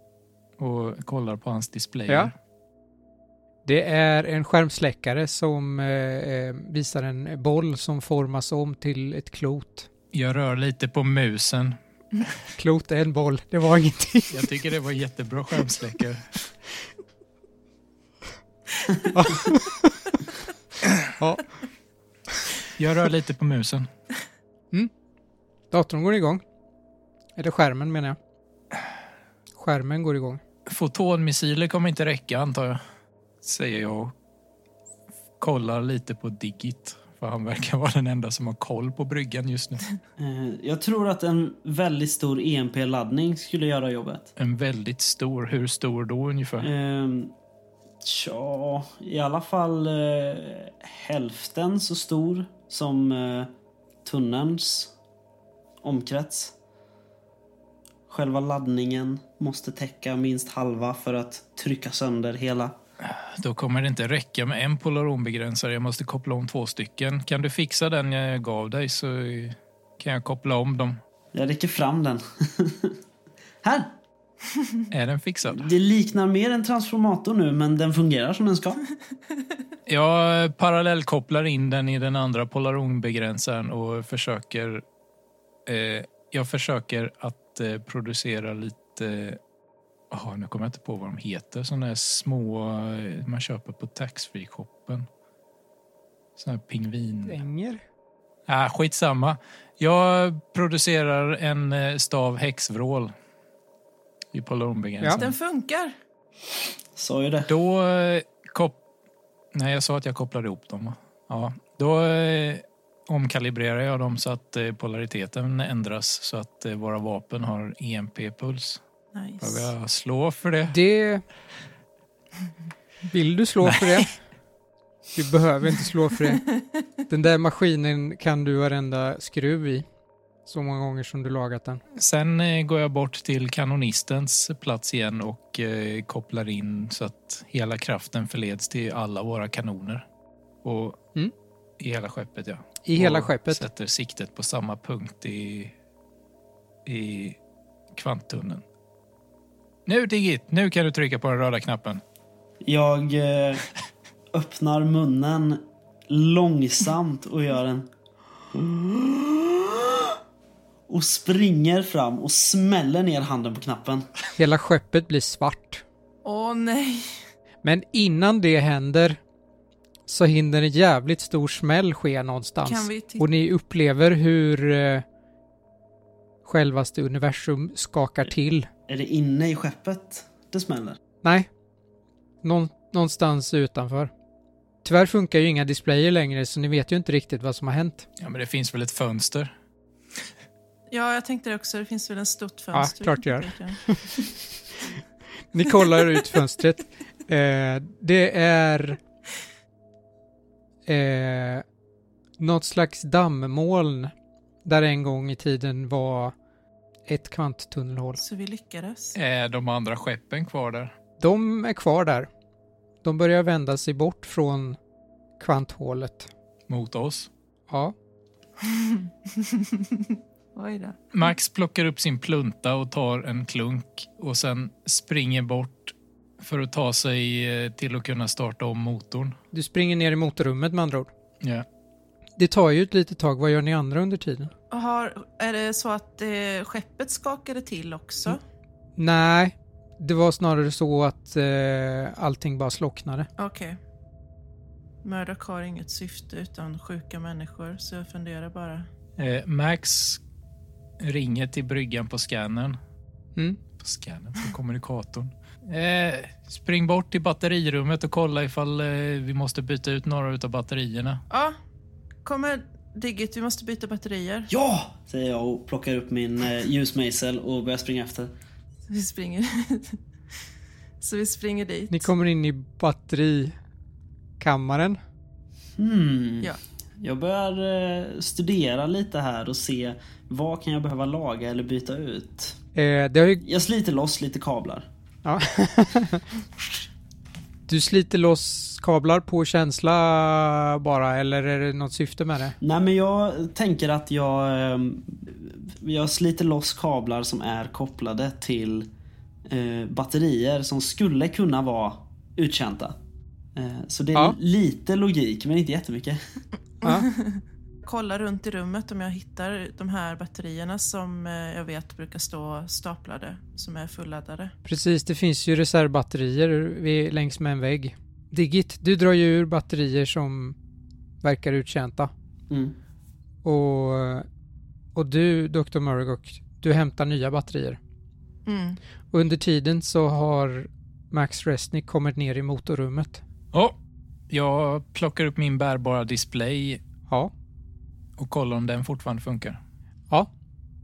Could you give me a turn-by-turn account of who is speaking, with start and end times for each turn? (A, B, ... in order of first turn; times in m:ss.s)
0:00.6-0:02.3 A
0:03.6-0:09.9 B
0:10.1-0:12.2 A
0:12.6-0:14.5 B
0:14.3-0:16.2 A
0:19.1-0:20.1 B
0:21.2-0:21.4 B
0:22.8-0:23.9 A
0:25.7-0:26.4 B
0:27.4-0:28.2 B
0:29.6-0:30.4 B
0:30.7-0:32.8 A
0:33.4-0:34.1 A
0:35.4-0:39.8 A
0:40.2-0:44.3 C
0:44.4-0:46.7 A
0:46.6-0:47.3 C
0:48.0-0:53.5 C
0:54.0-0:54.9 C
0:55.8-0:56.5 C
0:58.1-1:02.8 C
1:03.0-1:11.0 A
1:11.3-1:13.0 C
1:13.6-1:13.9 C
1:14.9-1:15.7 A
1:15.5-1:18.8 C
1:19.9-1:24.8 A
1:25.6-1:29.4 A
1:30.1-1:35.1 A
1:36.4-1:37.4 A
1:37.2-1:37.8 B
1:38.5-1:43.1 A
1:44.3-1:45.3 A
1:45.1-1:45.9 D
1:47.0-1:47.5 C
1:47.5-1:48.8 A
1:49.5-1:58.8 A
1:59.1-1:59.7 D
1:59.4-2:00.8 A
2:00.7-2:01.2 B
2:03.1-2:04.2 B
2:05.1-2:06.4 B
2:07.1-2:09.8 B
2:10.4-2:11.8 B
2:12.0-2:20.0 A
2:20.6-2:21.0 A
2:21.8-2:25.7 A
2:22.8-2:23.6 B
2:26.8-2:27.4 A
2:27.9-2:28.6 A
2:29.8-2:32.0 A
2:32.6-2:33.6 C
2:34.3-2:37.9 C
2:38.5-2:40.2 C
2:40.9-2:44.1 C
2:44.4-2:45.8 B
2:46.2-2:47.2 D
2:47.6-2:49.2 B
2:50.1-2:55.0 B
2:52.6-2:53.2 D
2:56.4-2:58.7 B
2:58.9-3:01.0 C
3:01.2-3:01.5 B
3:02.4-3:04.1 B
3:04.8-3:08.0 B
3:08.2-3:09.5 A
3:10.9-3:13.8 D
3:12.7-3:14.0 B
3:15.5-3:19.0 B
3:20.8-3:21.6 B
3:22.4-3:24.1 B
3:24.6-3:26.3 B
3:27.1-3:28.2 B
3:28.2-3:29.1 D
3:29.1-3:30.9 A
3:31.2-3:32.3 B
3:33.0-3:34.8 B
3:35.4-3:36.3 B
3:36.7-3:37.3 A
3:37.7-3:37.9 B
3:38.6-3:41.0 D
3:41.1-3:49.4 A
3:49.5-3:51.1 B
3:52.4-3:54.5 B
3:54.7-3:58.4 D
3:59.0-4:03.3 B
4:03.4-4:03.8 D
4:05.0-4:08.9 D
4:09.2-4:10.2 A
4:11.0-4:12.8 A
4:13.8-4:21.2 A
4:21.3-4:21.6 D
4:22.2-4:24.5 D
4:24.5-4:28.3 C
4:28.9-4:30.0 D
4:31.0-4:32.1 D
4:31.9-4:33.5 B
4:34.4-4:35.0 B
4:35.8-4:42.6 C
4:42.7-4:43.4 B
4:43.4-4:44.9 C
4:45.2-4:46.2 B
4:47.7-4:52.6 B
4:52.6-4:58.9 C
4:59.4-5:03.0 C
5:03.5-5:06.2 C
5:06.8-5:14.5 D
5:14.6-5:20.6 B
5:21.2-5:22.1 B
5:22.5-5:22.8 C
5:23.4-5:24.3 B
5:24.9-5:27.8 B
5:28.4-5:28.8 D
5:29.1-5:33.2 B
5:34.3-5:36.8 A
5:38.2-5:39.6 A